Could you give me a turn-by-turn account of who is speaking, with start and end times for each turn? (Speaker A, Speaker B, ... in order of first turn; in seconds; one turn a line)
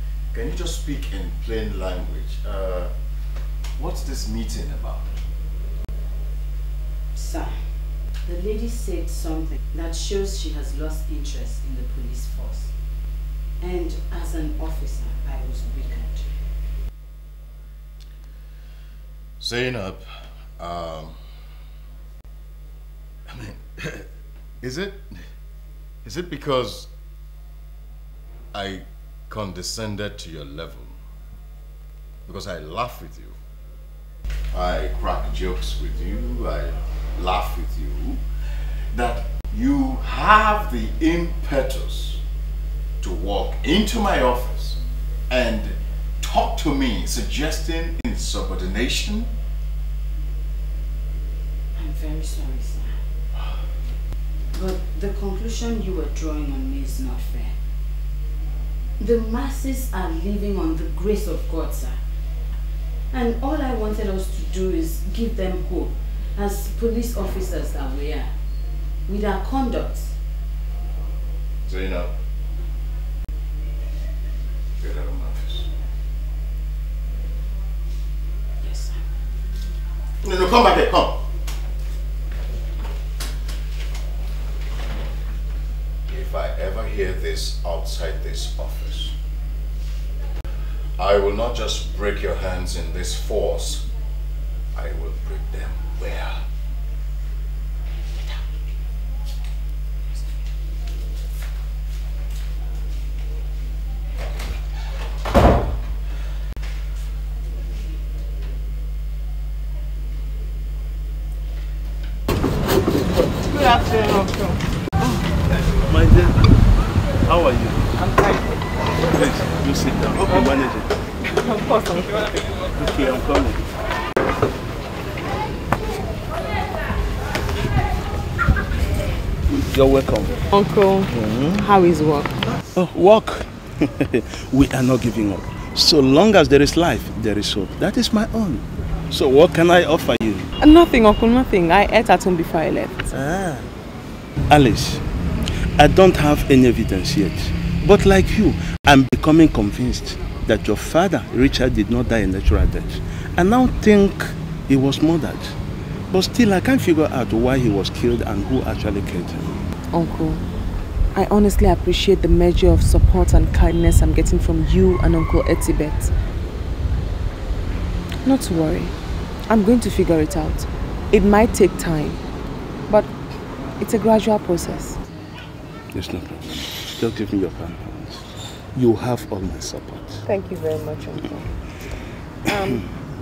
Speaker A: 0.3-2.9
Speaker A: 3.8-5.1
Speaker B: 7.2-7.6
Speaker B: 8.2-12.7
Speaker B: 13.6-16.3
Speaker A: 19.4-20.1
Speaker A: 20.6-21.1
Speaker A: 23.3-24.0
Speaker A: 24.6-25.0
Speaker A: 26.0-26.9
Speaker A: 28.5-31.0
Speaker A: 32.3-33.4
Speaker A: 34.5-38.2
Speaker A: 38.9-42.2
Speaker A: 43.0-44.8
Speaker A: 45.3-49.3
Speaker B: 51.8-53.0
Speaker B: 54.5-57.6
Speaker B: 59.0-62.0
Speaker B: 63.1-68.3
Speaker B: 69.1-70.1
Speaker A: 71.7-72.1
Speaker A: 74.8-75.7
Speaker B: 78.6-79.0
Speaker A: 80.2-81.2
Speaker A: 86.1-89.2
Speaker A: 91.0-93.9
Speaker A: 94.7-96.4
Speaker C: 113.5-114.6
Speaker D: 115.0-116.4
Speaker D: 117.2-117.9
Speaker C: 118.0-118.4
Speaker D: 119.0-120.9
Speaker C: 121.3-122.2
Speaker D: 122.7-123.6
Speaker D: 129.5-130.4
Speaker C: 130.5-132.3
Speaker D: 131.1-131.7
Speaker D: 132.7-140.5
Speaker C: 140.6-143.2
Speaker D: 143.1-143.7
Speaker D: 144.5-145.0
Speaker D: 145.8-155.6
Speaker D: 156.1-159.6
Speaker C: 159.9-160.4
Speaker C: 161.2-166.1
Speaker C: 168.2-168.9
Speaker C: 169.5-172.2
Speaker C: 173.8-175.0
Speaker D: 175.9-180.2
Speaker C: 180.2-181.5
Speaker C: 182.5-182.8